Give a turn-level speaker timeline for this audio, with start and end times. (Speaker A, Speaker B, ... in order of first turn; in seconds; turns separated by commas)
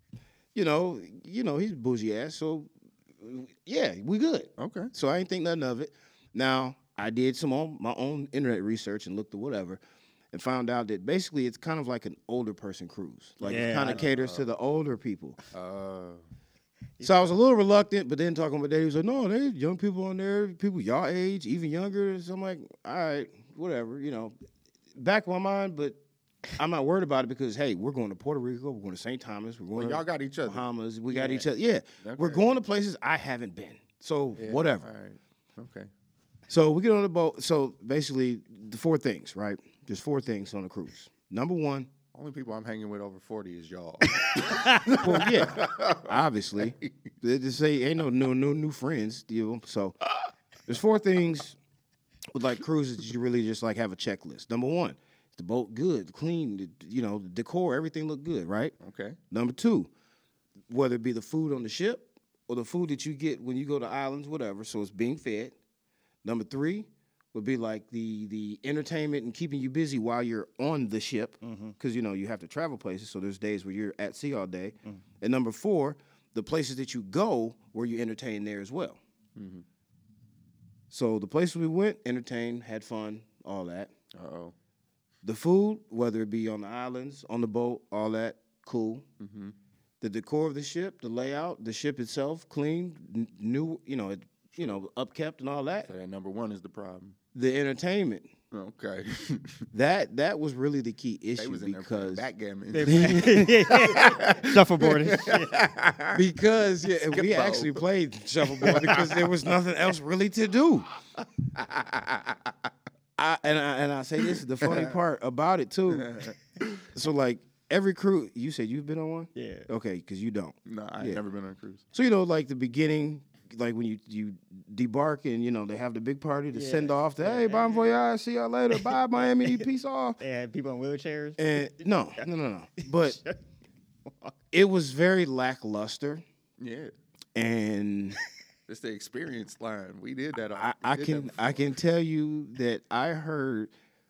Speaker A: 0.5-9.8, Speaker B: 4.6-4.9, Speaker A: 10.3-15.4, Speaker B: 13.4-14.5, Speaker C: 13.4-14.1, Speaker B: 15.5-16.2, Speaker C: 17.0-17.3, Speaker A: 17.0-24.3, Speaker A: 24.9-26.0, Speaker A: 26.6-34.9, Speaker B: 29.7-30.6, Speaker C: 31.1-31.5, Speaker B: 32.0-32.5, Speaker B: 34.4-35.9, Speaker A: 36.5-41.9, Speaker B: 42.1-47.0, Speaker C: 44.2-45.0, Speaker A: 44.8-50.0, Speaker A: 50.7-51.6, Speaker A: 52.3-58.7, Speaker B: 58.8-59.2, Speaker A: 59.3-59.9, Speaker A: 60.7-65.5, Speaker A: 66.2-79.0, Speaker C: 71.4-71.8, Speaker B: 79.3-79.6, Speaker A: 80.9-83.9, Speaker B: 84.1-84.5, Speaker A: 85.2-89.0, Speaker B: 89.2-89.5, Speaker A: 90.0-95.9, Speaker B: 95.8-97.2, Speaker A: 97.3-98.3, Speaker B: 98.5-99.6, Speaker A: 99.7-102.2, Speaker B: 101.4-106.2, Speaker C: 102.7-105.6, Speaker A: 102.8-104.3, Speaker A: 106.1-110.9, Speaker B: 107.0-107.8, Speaker B: 108.5-109.4, Speaker B: 111.2-112.7, Speaker A: 113.2-116.3, Speaker B: 114.3-115.0, Speaker B: 115.9-116.9, Speaker A: 116.9-121.2, Speaker C: 119.3-119.7, Speaker B: 120.7-121.8, Speaker A: 121.9-130.2, Speaker C: 126.5-128.0, Speaker C: 128.7-129.7, Speaker C: 130.2-132.2, Speaker A: 131.4-133.2, Speaker C: 132.8-133.4, Speaker C: 134.1-134.3, Speaker A: 134.5-136.2, Speaker B: 136.6-136.9, Speaker A: 137.3-138.2, Speaker B: 138.7-141.7, Speaker A: 140.6-143.7